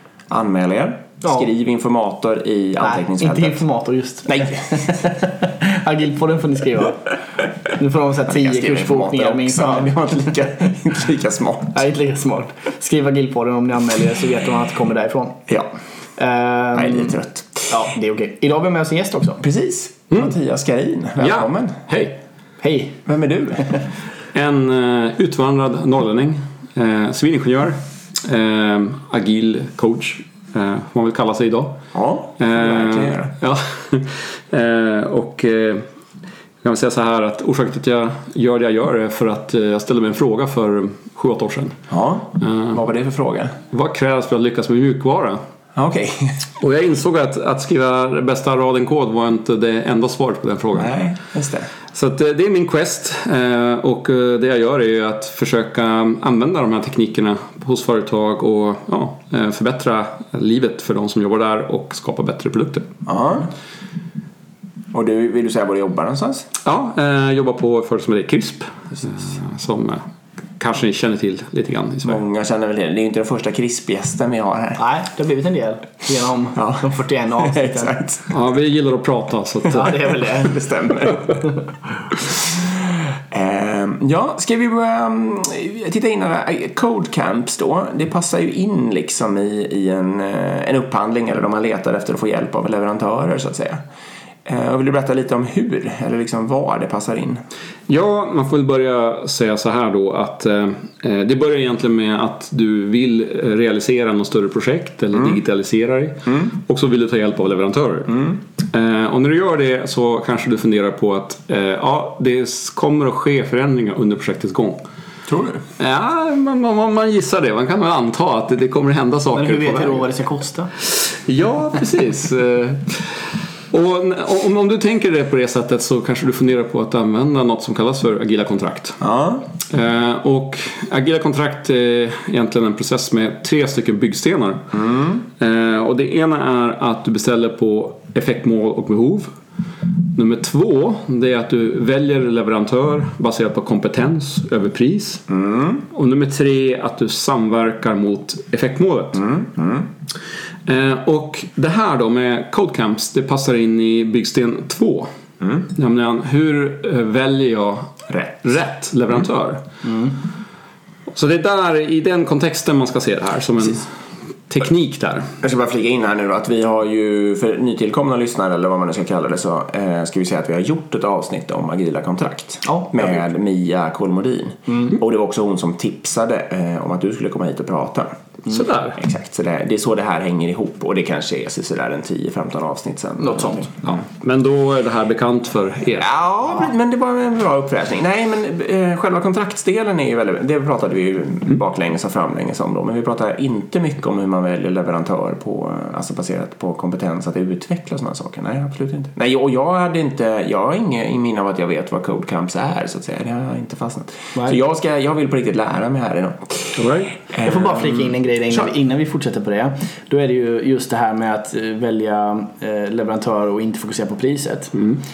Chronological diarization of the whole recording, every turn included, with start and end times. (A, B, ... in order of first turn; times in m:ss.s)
0:00.3-0:03.6 A
0:02.8-0:07.1 B
0:04.3-0:04.9 A
0:07.7-0:10.3 B
0:08.3-0:11.8 A
0:11.7-0:15.4 B
0:16.2-0:17.2 B
0:16.7-0:17.7 A
0:17.7-0:19.4 B
0:19.4-0:21.8 A
0:21.2-0:22.2 C
0:22.6-0:23.0 B
0:23.0-0:23.7 A
0:24.3-0:31.8 C
0:31.9-0:33.3 A
0:32.4-0:35.9 C
0:36.6-0:41.8 C
0:41.9-0:43.6 A
0:42.4-0:42.8 C
0:43.7-0:45.4 C
0:45.7-0:46.4 A
0:46.6-0:51.0 C
0:50.8-0:51.7 A
0:51.9-1:02.9 C
1:03.0-1:03.5 A
1:04.9-1:06.5 A
1:06.6-1:10.0 C
1:10.6-1:12.2 C
1:12.0-1:14.8 A
1:14.8-1:18.0 B
1:16.5-1:18.3 A
1:18.3-1:20.2 C
1:19.7-1:20.6 B
1:20.3-1:21.5 A
1:22.1-1:33.8 A
1:34.4-1:37.4 A
1:37.9-1:54.8 C
1:48.1-1:48.4 A
1:55.3-1:55.6 A
1:55.8-2:00.1 C
1:59.3-2:00.7 B
2:00.8-2:09.0 C
2:09.0-2:09.5 A
2:09.7-2:14.7 C
2:14.7-2:15.2 A
2:15.3-2:19.3 C
2:20.1-2:25.3 C
2:25.3-2:25.8 A
2:25.9-2:29.3 C
2:29.2-2:29.9 A
2:30.6-2:35.1 C
2:35.4-2:35.7 A
2:35.7-2:39.6 C
2:38.1-2:38.3 A
2:39.8-2:40.1 B
2:41.1-2:43.9 C
2:44.5-2:45.3 C
2:45.4-2:58.1 A
2:52.6-2:53.0 B
2:58.5-2:59.0 C
2:59.0-3:04.0 A
3:03.2-3:03.7 B
3:03.9-3:06.1 C
3:06.0-3:28.1 A
3:26.8-3:27.1 C
3:27.4-3:34.7 B
3:34.7-3:35.0 C